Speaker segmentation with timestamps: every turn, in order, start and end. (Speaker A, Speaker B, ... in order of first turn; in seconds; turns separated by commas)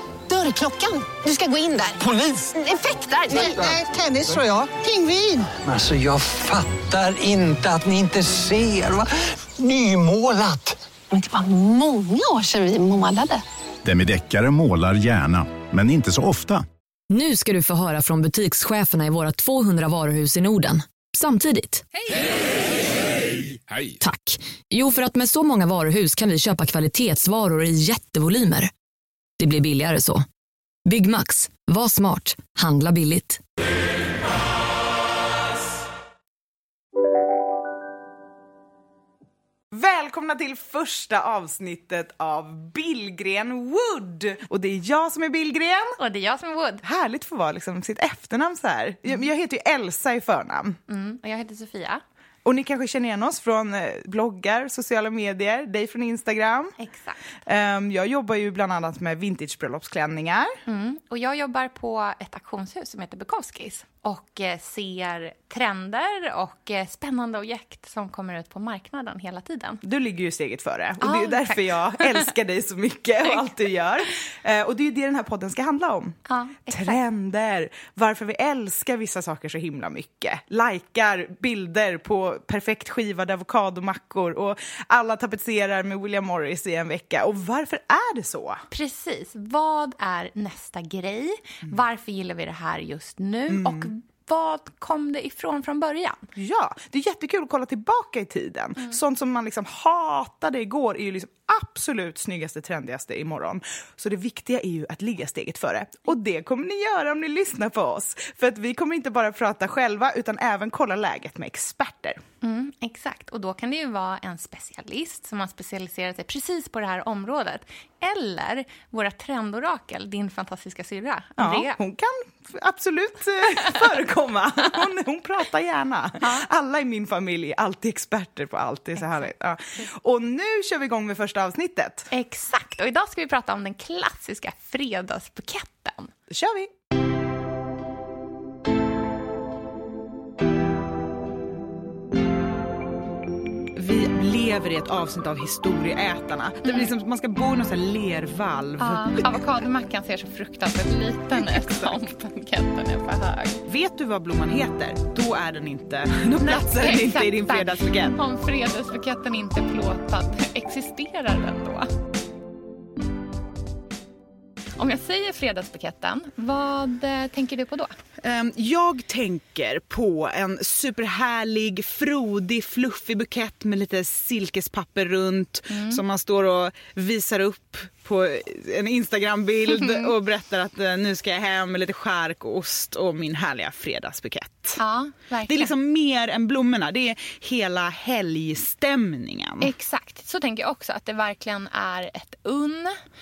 Speaker A: 0.3-3.7, Speaker B: 3.4-5.6, Speaker C: 5.6-9.0, Speaker C: 9.6-10.7, Speaker A: 11.1-13.4, Speaker D: 13.8-16.6, Speaker E: 17.1-21.9, Speaker E: 24.0-28.7, Speaker E: 29.4-30.2, Speaker E: 30.9-33.4, Speaker F: 39.7-46.0, Speaker G: 46.0-46.8, Speaker F: 46.8-50.8, Speaker G: 50.9-52.0, Speaker F: 52.5-56.7, Speaker G: 56.8-57.3, Speaker F: 57.5-60.6, Speaker G: 60.7-69.8, Speaker F: 69.8-88.6, Speaker G: 71.0-72.3, Speaker G: 73.3-73.6, Speaker G: 76.3-77.0, Speaker G: 88.7-96.3, Speaker F: 93.5-93.9, Speaker F: 96.3-112.2, Speaker G: 112.4-121.8, Speaker F: 121.4-132.1, Speaker G: 123.5-123.8, Speaker G: 126.2-126.5, Speaker G: 129.0-129.9, Speaker G: 132.1-136.1, Speaker F: 136.3-136.7, Speaker F: 143.8-149.4, Speaker G: 146.7-146.9, Speaker G: 148.8-153.6, Speaker F: 151.3-152.0, Speaker F: 153.7-158.2, Speaker G: 156.4-161.9, Speaker G: 164.8-168.0, Speaker F: 168.2-184.8, Speaker G: 175.7-176.0, Speaker G: 179.7-180.1, Speaker G: 184.8-185.7, Speaker F: 185.5-189.7, Speaker G: 189.6-193.0